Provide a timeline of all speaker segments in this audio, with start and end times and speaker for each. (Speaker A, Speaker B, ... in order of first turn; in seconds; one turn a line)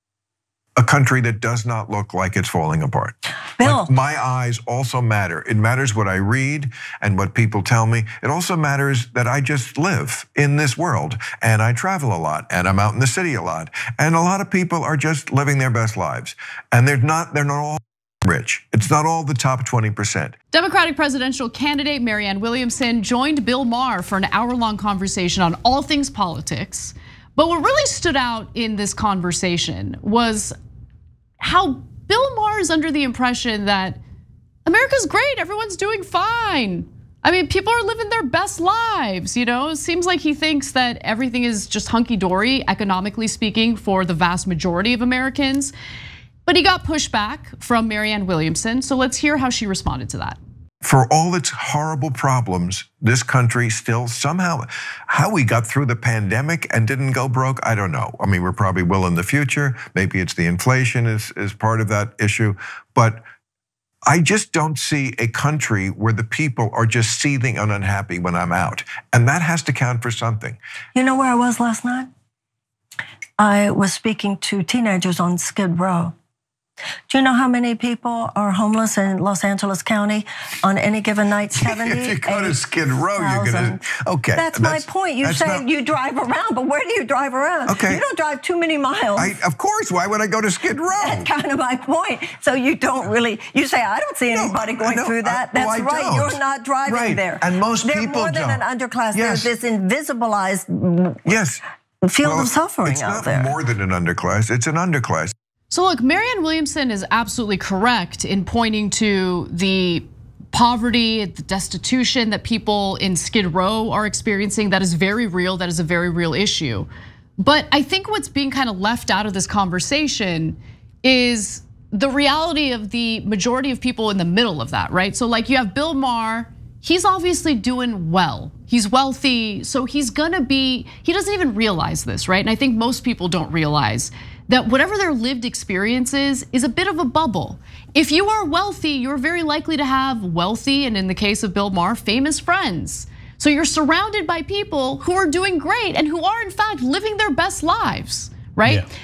Speaker A: 0.8-20.4
Speaker B: 3.6-3.9
Speaker C: 20.5-30.5
Speaker C: 31.4-34.0
Speaker C: 34.7-45.7
Speaker C: 46.5-50.4
Speaker A: 50.8-63.3
Speaker A: 64.1-70.6
Speaker B: 71.0-72.1
Speaker B: 73.4-76.2
Speaker B: 77.1-82.6
Speaker A: 81.6-85.6
Speaker B: 83.2-89.3
Speaker A: 87.7-88.0
Speaker A: 89.2-91.3
Speaker B: 91.0-101.3
Speaker A: 94.3-99.5
Speaker A: 101.2-101.6
Speaker B: 102.0-103.6
Speaker A: 102.2-105.3
Speaker C: 105.7-148.9